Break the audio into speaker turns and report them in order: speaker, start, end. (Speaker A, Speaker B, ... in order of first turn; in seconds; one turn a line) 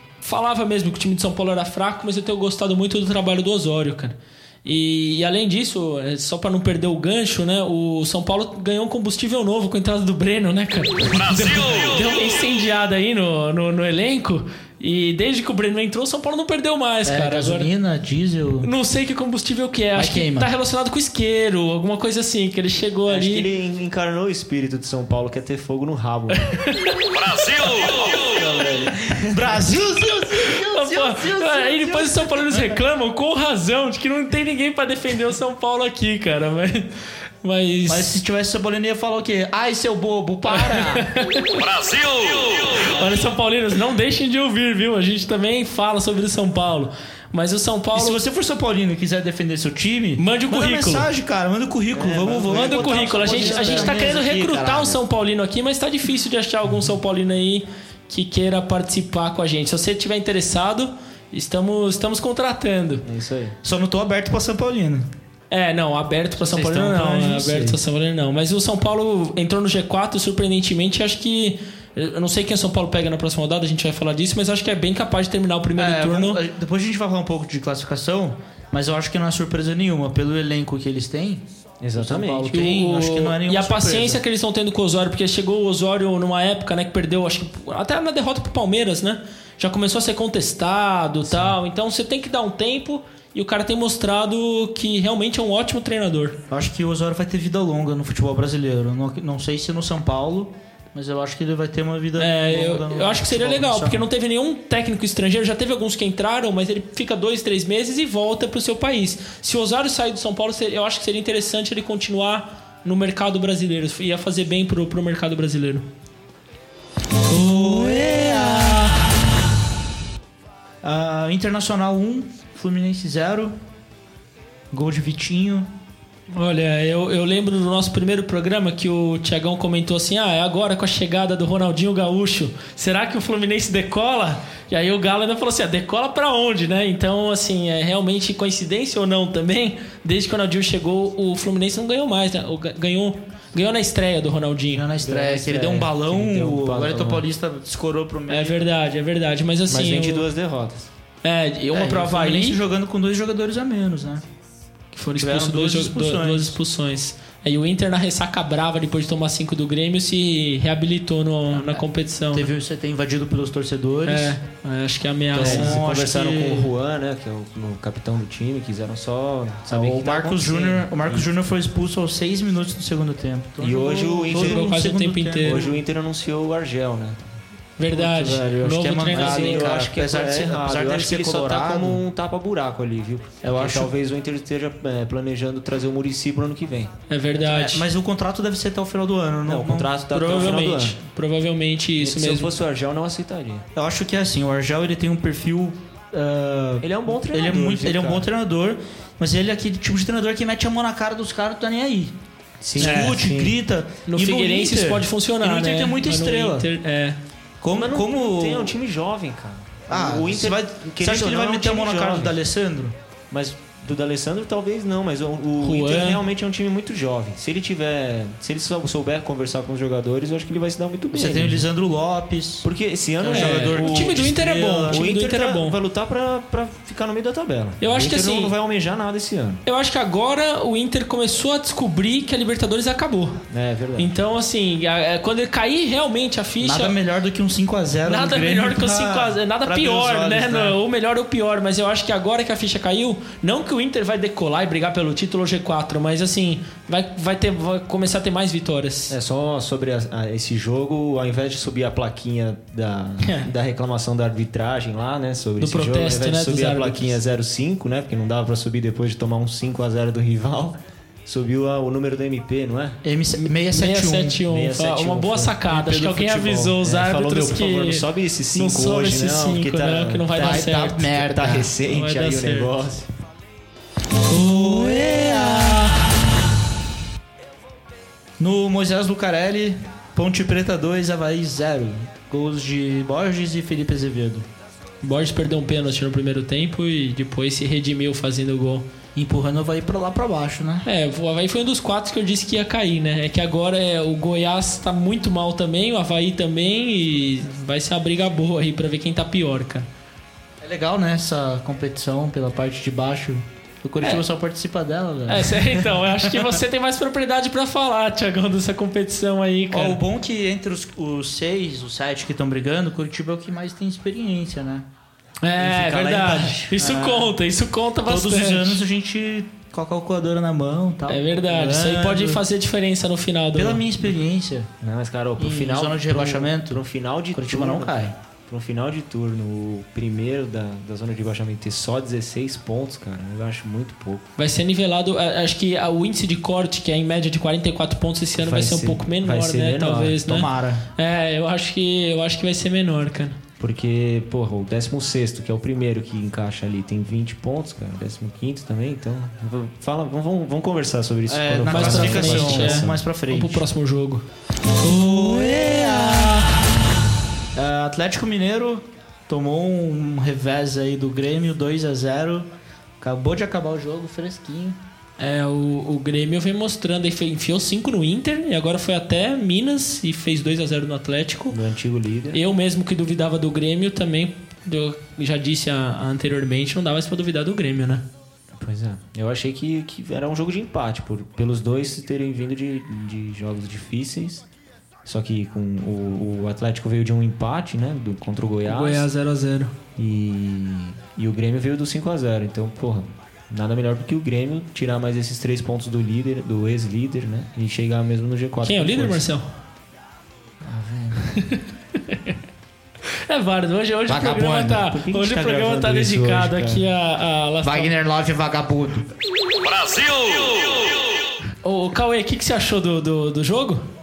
Speaker A: 0.2-17.7
Speaker B: 17.1-18.7
Speaker A: 18.6-23.5
Speaker B: 19.9-20.5
Speaker C: 23.1-26.5
Speaker A: 26.4-27.7
Speaker C: 28.1-29.6
Speaker B: 29.3-32.8
Speaker A: 30.3-38.1
Speaker B: 37.9-41.1
Speaker A: 40.5-48.2
Speaker B: 47.9-55.0
Speaker A: 50.2-51.1
Speaker C: 51.9-54.2
Speaker A: 52.5-63.0
Speaker C: 63.0-63.6
Speaker B: 63.6-65.1
Speaker A: 65.5-76.4
Speaker B: 66.4-67.8
Speaker B: 75.8-81.4
Speaker C: 81.8-82.5
Speaker B: 81.9-84.2
Speaker A: 82.5-96.4
Speaker C: 91.3-91.5
Speaker B: 96.5-104.0
Speaker A: 102.2-115.9
Speaker A: 117.3-118.9
Speaker B: 120.8-123.5
Speaker B: 124.7-125.7
Speaker A: 126.3-144.8
Speaker B: 144.7-148.6
Speaker C: 145.0-147.2
Speaker A: 148.3-150.3
Speaker C: 149.7-150.9
Speaker A: 151.2-152.6
Speaker B: 151.7-154.2
Speaker A: 154.9-162.5
Speaker B: 155.2-156.6
Speaker B: 161.5-161.8
Speaker B: 162.3-164.4
Speaker A: 164.1-165.8
Speaker B: 165.3-166.7
Speaker C: 165.3-171.3
Speaker B: 169.7-175.6
Speaker C: 173.6-174.8
Speaker A: 174.3-175.7
Speaker C: 175.4-177.2
Speaker A: 177.8-179.8
Speaker C: 177.9-178.4
Speaker B: 178.0-182.0
Speaker C: 179.1-186.9
Speaker B: 183.5-183.9
Speaker A: 187.1-187.8
Speaker B: 187.3-190.6
Speaker C: 189.4-191.0
Speaker A: 190.1-192.5
Speaker C: 192.0-193.7
Speaker B: 193.7-202.1
Speaker C: 196.8-198.3
Speaker C: 202.6-203.5
Speaker B: 202.8-206.7
Speaker A: 202.8-203.3
Speaker A: 204.1-207.2
Speaker B: 207.6-208.7
Speaker C: 207.7-212.3
Speaker B: 209.9-212.9
Speaker C: 213.3-221.6
Speaker A: 215.6-216.2
Speaker B: 221.1-222.7
Speaker C: 222.6-229.6
Speaker B: 223.2-225.0
Speaker A: 223.3-225.8
Speaker A: 227.8-228.5
Speaker A: 229.7-233.4
Speaker C: 233.5-234.1
Speaker A: 234.0-237.0
Speaker B: 236.6-240.7
Speaker A: 238.1-249.1
Speaker C: 249.1-263.0
Speaker A: 253.2-253.5
Speaker A: 255.6-257.2
Speaker B: 263.0-264.4
Speaker A: 263.4-272.7
Speaker C: 264.5-273.1
Speaker B: 265.7-266.4
Speaker B: 270.3-271.7
Speaker A: 274.3-275.8
Speaker B: 278.4-284.5
Speaker A: 285.0-288.9
Speaker B: 289.1-290.9
Speaker A: 290.9-299.9
Speaker B: 300.6-306.5
Speaker A: 305.3-310.0
Speaker B: 309.7-314.9
Speaker A: 315.4-318.8
Speaker C: 315.6-316.7
Speaker B: 316.8-317.3
Speaker B: 318.1-322.4
Speaker A: 321.1-323.8
Speaker B: 323.5-324.7
Speaker C: 324.8-328.0
Speaker B: 325.4-326.8
Speaker B: 327.3-328.1
Speaker C: 328.5-334.3
Speaker A: 334.4-343.4
Speaker C: 338.4-340.4
Speaker B: 340.2-340.9
Speaker C: 343.6-353.0
Speaker B: 351.3-353.6
Speaker A: 351.6-354.2
Speaker B: 354.8-356.2
Speaker B: 357.5-362.5
Speaker B: 363.0-364.8
Speaker A: 365.2-371.6
Speaker C: 371.5-372.4
Speaker A: 372.3-378.0
Speaker C: 378.5-384.4
Speaker C: 385.0-389.1
Speaker A: 388.6-389.7
Speaker C: 390.0-399.2
Speaker A: 398.6-399.4
Speaker B: 400.6-401.2
Speaker A: 401.2-402.4
Speaker A: 403.3-407.9
Speaker B: 404.1-404.8
Speaker C: 404.7-406.8
Speaker B: 407.6-409.1
Speaker A: 411.6-413.8